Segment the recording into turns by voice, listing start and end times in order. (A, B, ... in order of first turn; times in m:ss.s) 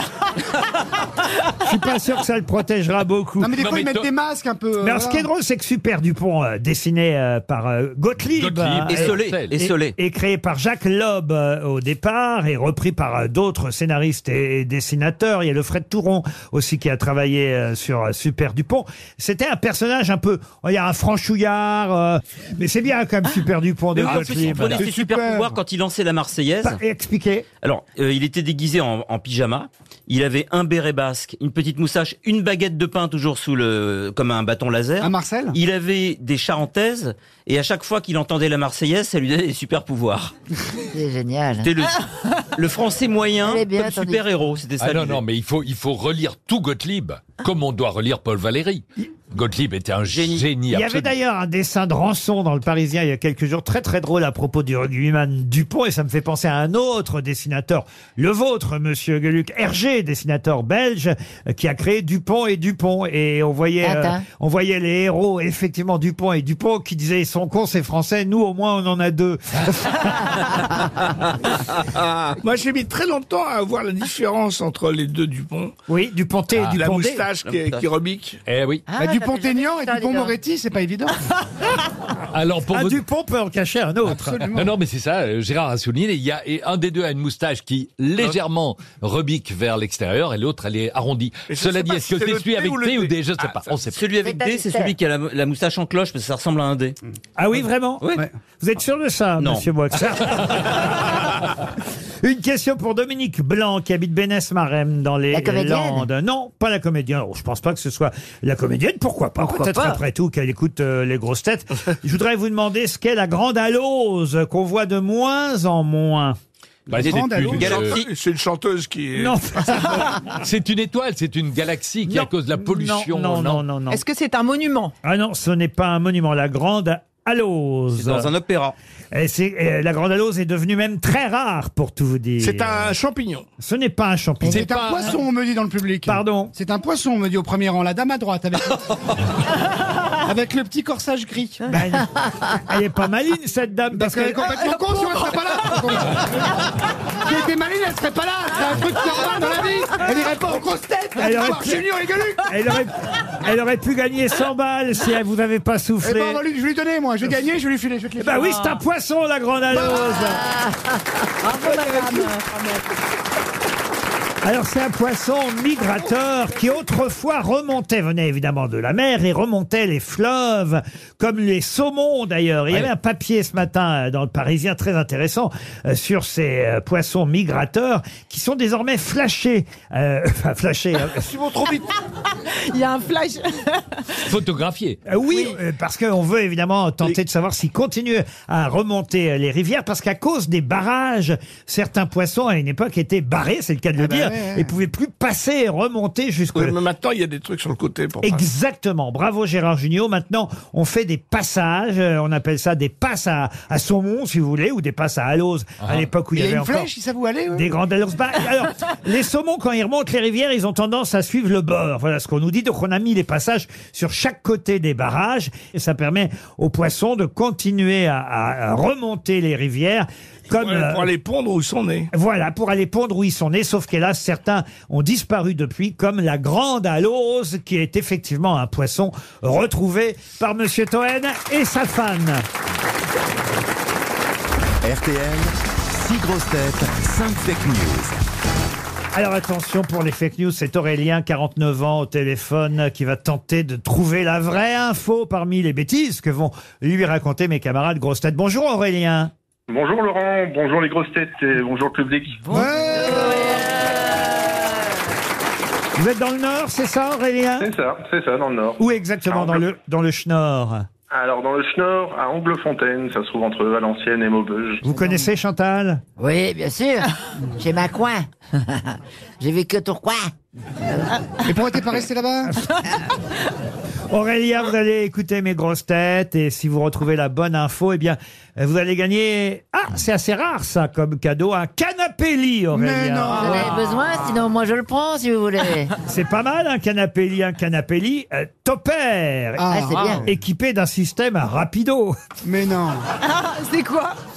0:01.6-0:03.6 A
0:03.4-0:05.2 B
0:03.6-0:04.1 C
0:04.8-0:24.9 A
0:08.4-0:09.6 C
0:08.9-0:09.9 D
0:23.9-0:26.8 D
0:24.0-0:25.5 B
0:26.6-0:27.4 A
0:27.6-0:40.3 D
0:35.0-0:35.6 B
0:40.9-0:41.7 E
0:41.6-0:42.0 D
0:42.5-0:45.2 D
0:43.4-0:44.2 E
0:44.8-0:51.1 C
0:50.0-0:50.5 D
0:50.7-1:10.3 A
1:03.8-1:04.2 E
1:12.4-1:15.7 F
1:15.9-1:17.2 A
1:16.6-1:18.4 F
1:17.4-1:17.8 D
1:18.4-1:18.8 C
1:18.9-1:20.4 E
1:19.0-1:21.1 B
1:22.3-1:23.0 C
1:22.7-1:24.5 A
1:24.0-1:24.7 B
1:24.5-1:34.0 C
1:31.5-1:33.8 F
1:33.9-1:37.0 D
1:34.2-1:35.0 E
1:37.4-1:41.0 A
1:39.4-1:39.7 D
1:42.2-1:56.4 A
1:45.3-1:46.1 E
1:56.9-1:57.8 B
1:56.9-1:58.0 C
1:56.9-1:58.1 D
1:57.6-1:59.8 F
1:59.2-2:00.1 A
2:00.3-2:03.6 C
2:02.0-2:04.0 A
2:03.9-2:04.9 G
2:05.0-2:08.3 A
2:07.9-2:08.7 D
2:09.1-2:12.9 A
2:12.4-2:13.4 F
2:13.6-2:15.2 A
2:14.4-2:18.8 B
2:16.0-2:16.5 A
2:20.2-2:21.7 B
2:21.7-2:24.7 A
2:23.9-2:26.2 B
2:27.2-2:32.5 B
2:31.2-2:31.8 A
2:32.4-2:36.4 A
2:36.0-2:38.6 B
2:38.2-2:40.4 A
2:38.5-2:38.8 G
2:40.1-2:40.9 E
2:41.4-2:42.8 G
2:41.6-2:42.3 B
2:44.4-3:01.3 A
3:01.3-3:01.8 F
3:02.6-3:03.9 G
3:04.2-3:05.0 C
3:05.0-3:16.7 A
3:05.3-3:05.6 G
3:14.0-3:14.7 B
3:16.5-3:18.4 F
3:18.2-3:26.9 A
3:26.3-3:27.7 B
3:27.5-3:41.1 A
3:40.5-3:42.1 F
3:42.1-3:52.4 A
3:54.8-3:58.1 H
3:59.1-4:09.3 A
4:09.7-4:12.5 I
4:12.5-4:13.6 B
4:13.0-4:14.3 E
4:16.0-4:17.7 A
4:17.6-4:19.6 I
4:18.8-4:20.9 A
4:21.1-4:24.8 I
4:24.8-4:26.0 A
4:26.2-4:30.3 E
4:31.4-4:32.6 B
4:34.1-4:43.7 A
4:42.7-4:43.8 B
4:43.3-4:45.9 E
4:46.0-4:52.2 A
4:49.6-4:50.3 B
4:49.7-4:50.3 E
4:52.4-4:53.0 B
4:53.3-4:54.1 G